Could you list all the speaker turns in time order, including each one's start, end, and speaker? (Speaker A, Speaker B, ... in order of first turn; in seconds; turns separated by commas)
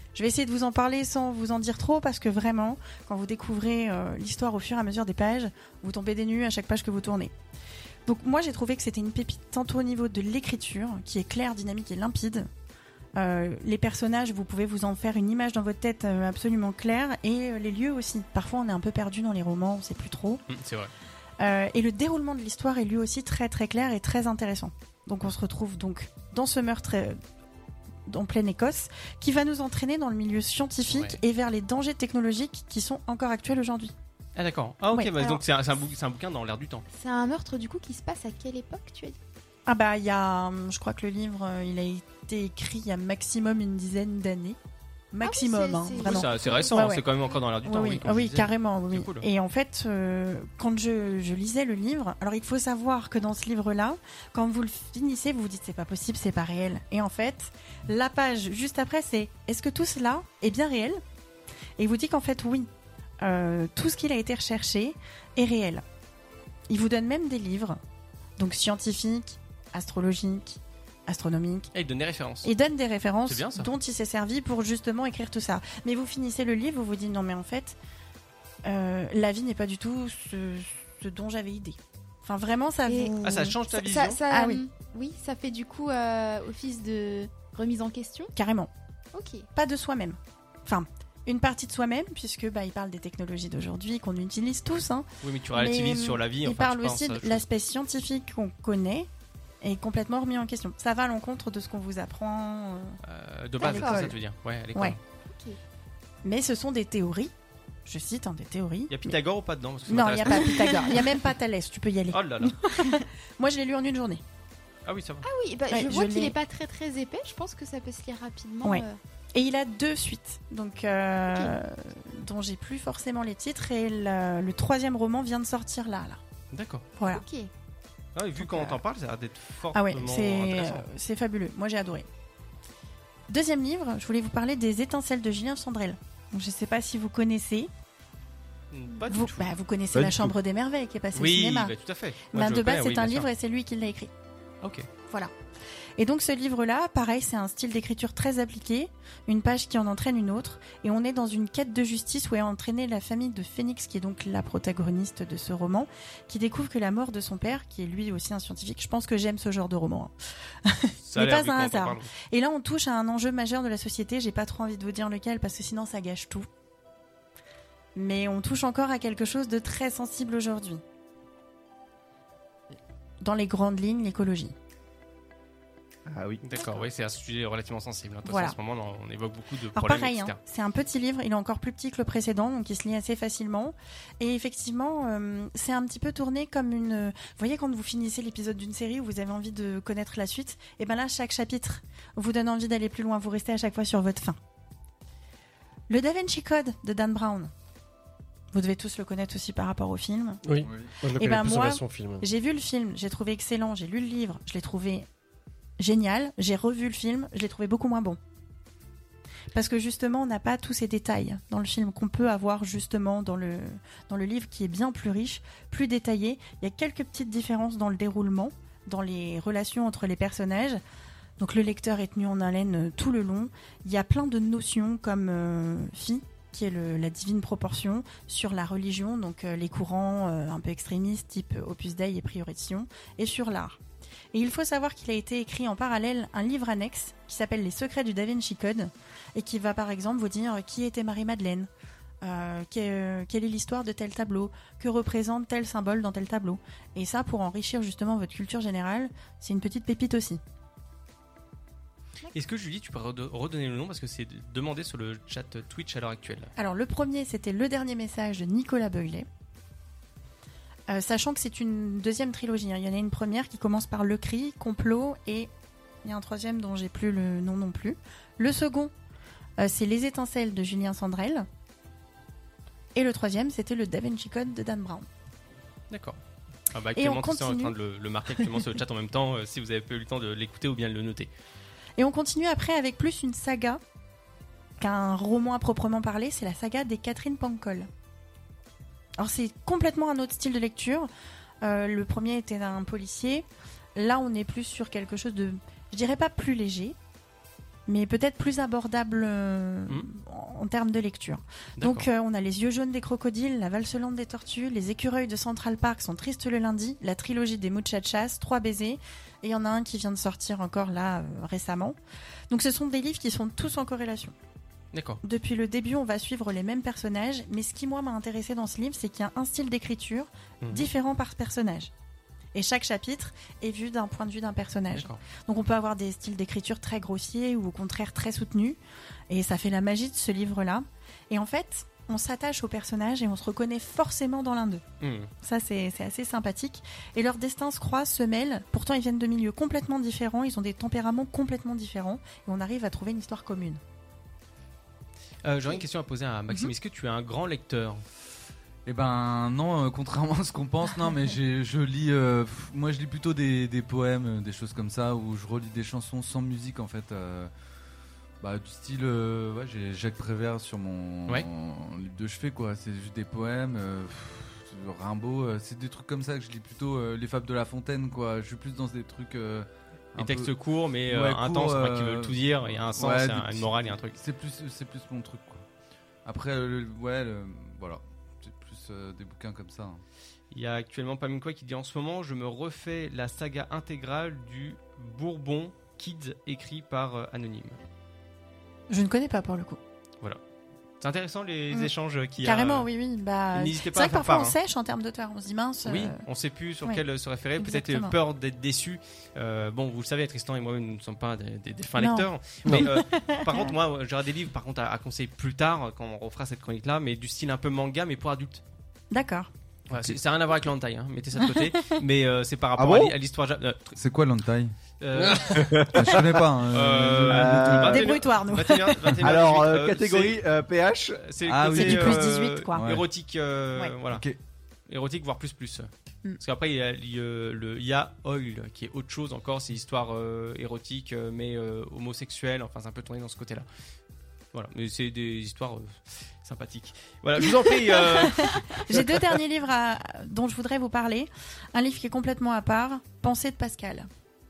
Speaker A: 0.1-7.3, Speaker A: 8.1-12.5, Speaker A: 13.2-20.4, Speaker B: 20.5-20.9, Speaker A: 21.4-27.2, Speaker A: 28.1-33.9, Speaker B: 30.9-31.2, Speaker B: 34.4-36.8, Speaker C: 35.2-35.4, Speaker C: 36.9-39.2, Speaker A: 39.6-44.6, Speaker A: 45.1-47.0, Speaker C: 45.2-47.0, Speaker B: 46.0-49.2, Speaker A: 47.6-61.0, Speaker A: 61.8-62.7, Speaker A: 63.2-65.8, Speaker A: 66.7-67.8, Speaker A: 68.4-71.7, Speaker B: 71.7-72.5, Speaker A: 72.4-77.8, Speaker B: 73.2-73.7, Speaker A: 78.6-83.6, Speaker C: 82.9-83.1, Speaker B: 83.2-84.2, Speaker C: 83.7-88.3, Speaker A: 84.3-84.6, Speaker A: 88.3-88.7, Speaker C: 89.1-89.5, Speaker A: 89.5-99.1, Speaker B: 95.2-97.4, Speaker A: 99.6-103.0, Speaker B: 103.0-105.0, Speaker A: 103.6-104.2, Speaker C: 103.6-104.1, Speaker C: 105.3-105.6, Speaker A: 106.2-107.3, Speaker A: 107.9-109.2, Speaker B: 108.9-110.9, Speaker A: 109.9-114.2, Speaker B: 112.1-112.6, Speaker B: 114.9-115.2, Speaker C: 115.2-119.0, Speaker A: 115.7-116.3, Speaker A: 118.6-126.2, Speaker B: 126.5-126.8, Speaker A: 127.0-127.2, Speaker C: 127.1-127.5, Speaker B: 128.1-130.8, Speaker A: 128.4-128.8, Speaker A: 129.7-132.1, Speaker A: 133.3-137.7, Speaker B: 138.7-139.5, Speaker A: 139.1-141.7, Speaker D: 139.9-140.3, Speaker B: 141.1-143.3, Speaker A: 142.3-144.1, Speaker B: 144.6-144.9, Speaker A: 146.0-166.5, Speaker B: 161.1-162.1, Speaker A: 167.9-170.8, Speaker A: 173.2-174.5, Speaker D: 176.1-176.4, Speaker B: 176.4-180.4, Speaker A: 178.3-178.6, Speaker A: 179.7-194.4, Speaker A: 195.9-197.5, Speaker A: 198.5-200.4, Speaker E: 200.4-202.2, Speaker F: 200.6-200.9, Speaker A: 201.1-205.1, Speaker A: 205.8-208.2, Speaker A: 209.5-220.8, Speaker A: 221.4-233.8, Speaker A: 234.3-241.7, Speaker A: 242.2-250.4, Speaker B: 252.3-256.5, Speaker A: 256.6-259.3, Speaker A: 260.9-265.5, Speaker A: 266.0-268.9, Speaker A: 269.6-271.5, Speaker A: 272.9-275.1, Speaker B: 275.9-276.2, Speaker B: 276.7-281.3, Speaker A: 276.9-277.7, Speaker A: 282.0-283.8, Speaker A: 284.8-287.9, Speaker A: 289.2-291.1, Speaker A: 291.6-297.0, Speaker A: 297.9-312.0, Speaker B: 301.8-302.1, Speaker A: 312.5-314.3, Speaker B: 314.9-315.2, Speaker A: 315.2-321.9, Speaker B: 320.6-320.9, Speaker A: 322.5-334.8, Speaker B: 324.9-325.2, Speaker B: 335.0-335.3, Speaker A: 335.4-343.8, Speaker B: 345.4-348.0, Speaker F: 348.8-357.5, Speaker F: 358.4-370.5, Speaker B: 370.2-374.2, Speaker F: 371.1-375.6, Speaker F: 376.2-380.0, Speaker B: 380.5-387.8, Speaker A: 388.9-389.8, Speaker B: 391.0-392.9, Speaker A: 391.7-396.2, Speaker B: 393.5-394.6, Speaker B: 395.8-408.6, Speaker A: 397.6-398.1, Speaker A: 402.0-403.7, Speaker E: 402.6-402.9, Speaker A: 409.1-409.5, Speaker B: 409.9-414.0, Speaker A: 411.4-411.7, Speaker D: 412.8-413.1, Speaker F: 413.9-414.7, Speaker B: 415.0-420.4, Speaker E: 415.1-415.7, Speaker D: 415.6-416.4, Speaker F: 415.9-417.9, Speaker D: 417.2-418.1, Speaker A: 417.9-419.4, Speaker D: 419.2-421.3, Speaker B: 421.2-424.2, Speaker F: 421.4-423.1, Speaker A: 421.7-422.8, Speaker F: 424.1-424.4, Speaker B: 424.9-425.9, Speaker B: 426.4-433.7, Speaker B: 434.5-439.2, Speaker A: 437.9-444.1